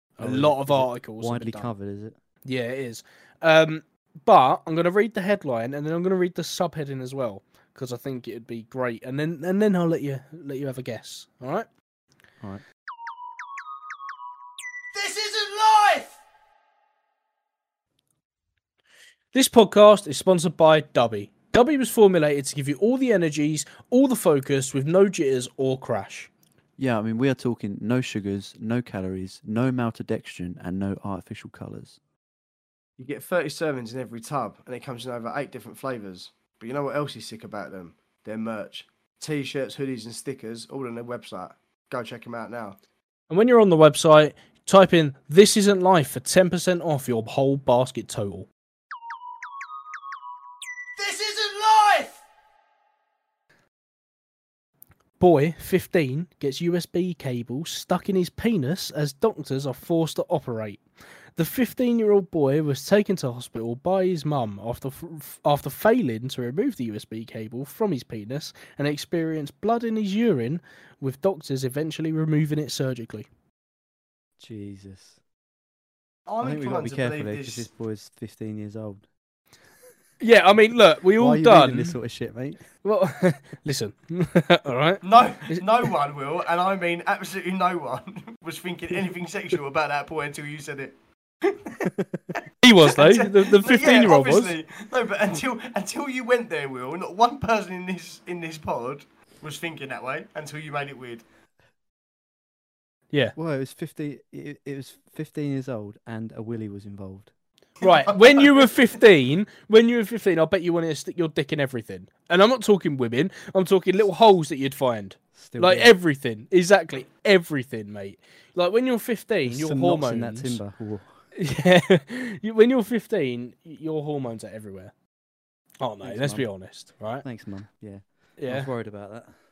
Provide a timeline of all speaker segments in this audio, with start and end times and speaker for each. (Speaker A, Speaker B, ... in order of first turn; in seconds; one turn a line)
Speaker A: 0.2-1.7
Speaker B: 0.2-2.2
Speaker A: 2.5-11.7
Speaker C: 14.9-16.2
Speaker A: 19.3-26.3
Speaker B: 26.8-32.0
Speaker C: 33.0-42.8
Speaker A: 43.3-48.5
Speaker C: 51.0-52.2
Speaker A: 55.2-60.8
Speaker A: 61.4-73.3
Speaker B: 74.4-75.2
Speaker C: 76.3-77.7
Speaker B: 76.4-79.1
Speaker A: 80.2-82.0
Speaker B: 81.2-82.6
Speaker A: 82.8-85.6
Speaker C: 85.0-91.9
Speaker B: 91.9-92.3
Speaker A: 92.6-94.5
Speaker C: 92.8-101.2
Speaker B: 103.3-107.3
Speaker A: 107.8-120.6
Speaker C: 107.8-108.7
Speaker B: 115.3-116.0
Speaker B: 119.5-121.2
Speaker A: 121.3-124.9
Speaker A: 125.8-127.2
Speaker B: 126.0-126.5
Speaker B: 127.2-129.3
Speaker A: 128.4-128.7